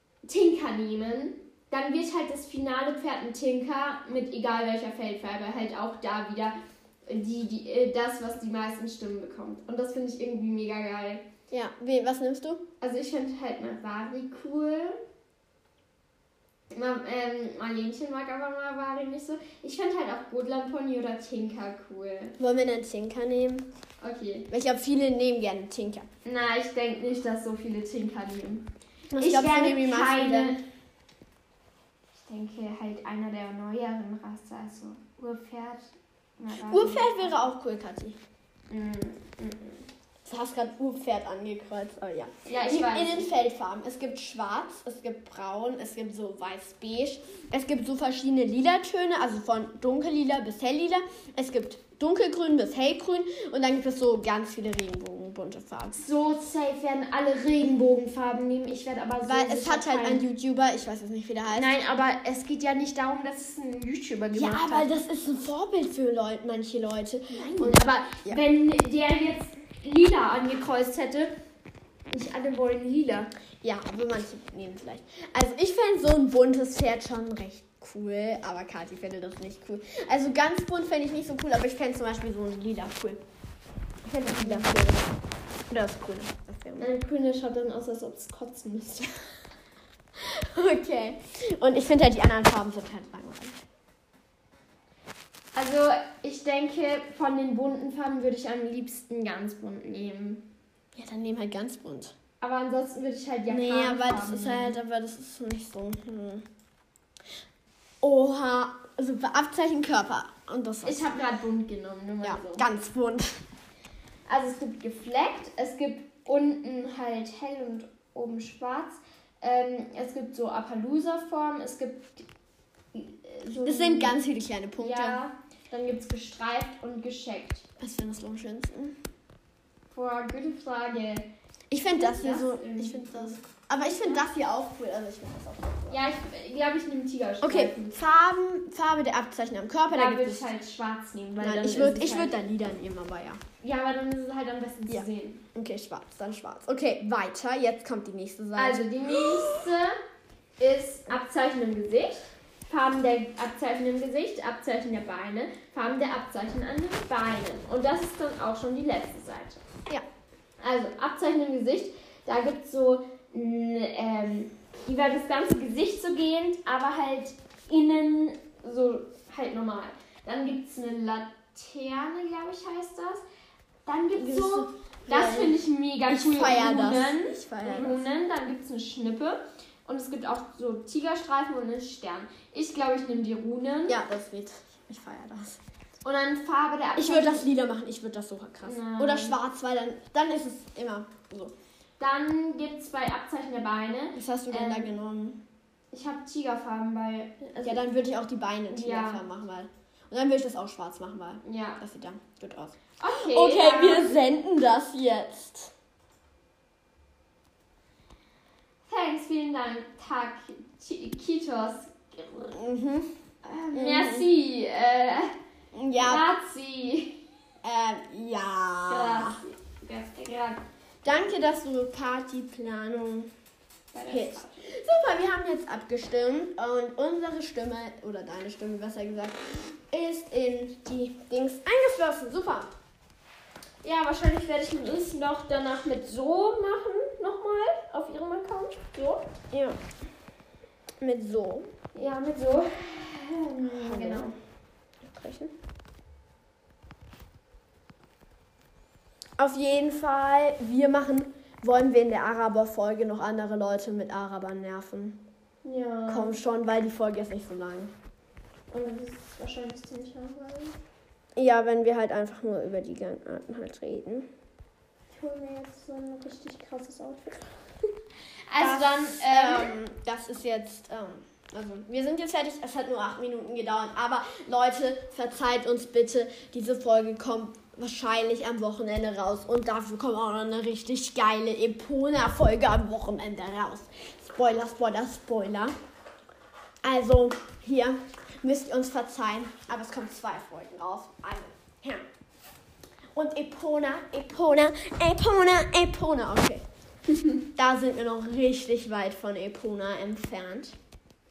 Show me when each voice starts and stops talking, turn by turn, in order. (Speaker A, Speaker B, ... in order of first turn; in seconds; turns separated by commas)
Speaker A: 0.2-6.5, Speaker A: 7.0-11.2, Speaker B: 11.5-12.6, Speaker A: 12.8-15.0, Speaker A: 16.7-22.4, Speaker B: 22.4-23.6, Speaker A: 24.0-24.5, Speaker B: 24.5-26.1, Speaker A: 26.2-30.6, Speaker B: 29.1-30.6, Speaker A: 32.1-37.4, Speaker B: 36.6-38.2, Speaker A: 38.7-39.9, Speaker B: 40.2-56.0, Speaker A: 42.5-43.3, Speaker A: 55.9-60.2, Speaker B: 59.2-61.7, Speaker A: 61.5-64.9, Speaker B: 64.3-68.4, Speaker A: 67.3-71.3, Speaker A: 72.1-73.3, Speaker B: 73.6-83.2, Speaker B: 84.0-85.1, Speaker A: 84.2-84.8, Speaker B: 85.7-86.9, Speaker A: 86.8-89.2, Speaker B: 90.3-93.6, Speaker A: 95.5-100.5, Speaker B: 100.9-102.1, Speaker A: 102.4-104.8, Speaker B: 103.5-106.5, Speaker B: 108.0-111.2, Speaker A: 110.8-112.7, Speaker B: 112.2-113.4, Speaker A: 114.3-122.3, Speaker A: 122.9-124.2, Speaker B: 123.5-125.2, Speaker A: 124.8-127.7, Speaker B: 127.8-129.0, Speaker A: 129.9-131.3, Speaker B: 131.7-136.0, Speaker A: 131.9-134.3, Speaker A: 135.9-138.0, Speaker B: 137.4-140.5, Speaker A: 139.9-142.3, Speaker B: 141.4-143.4, Speaker A: 143.6-145.4, Speaker B: 144.9-149.6, Speaker A: 148.5-149.9, Speaker A: 150.6-159.6, Speaker A: 160.6-173.2, Speaker A: 173.8-184.0, Speaker B: 174.2-178.1, Speaker B: 183.9-185.6, Speaker A: 186.0-187.5, Speaker B: 186.9-191.5, Speaker A: 188.6-189.4, Speaker A: 192.0-194.9, Speaker B: 194.1-195.4, Speaker A: 195.9-197.8, Speaker B: 197.6-205.7, Speaker A: 198.7-199.2, Speaker A: 201.4-201.8, Speaker A: 203.0-204.2, Speaker A: 208.9-212.6, Speaker B: 212.5-213.1, Speaker A: 213.4-215.3, Speaker B: 213.7-214.2, Speaker B: 215.7-216.2, Speaker A: 216.0-217.2, Speaker B: 217.6-219.4, Speaker A: 218.9-220.6, Speaker B: 221.0-223.3, Speaker A: 223.9-224.7, Speaker B: 224.1-232.7, Speaker A: 233.8-239.3, Speaker B: 239.5-239.8, Speaker B: 241.0-241.7, Speaker A: 241.9-244.3, Speaker B: 243.7-244.3, Speaker B: 245.0-245.5, Speaker B: 249.4-255.2, Speaker A: 255.6-256.4, Speaker B: 256.1-257.9, Speaker A: 258.7-260.8, Speaker B: 261.4-264.3, Speaker A: 265.1-267.5, Speaker A: 268.5-269.8, Speaker B: 268.6-285.7, Speaker B: 286.8-292.1, Speaker B: 293.1-296.6, Speaker B: 297.5-300.8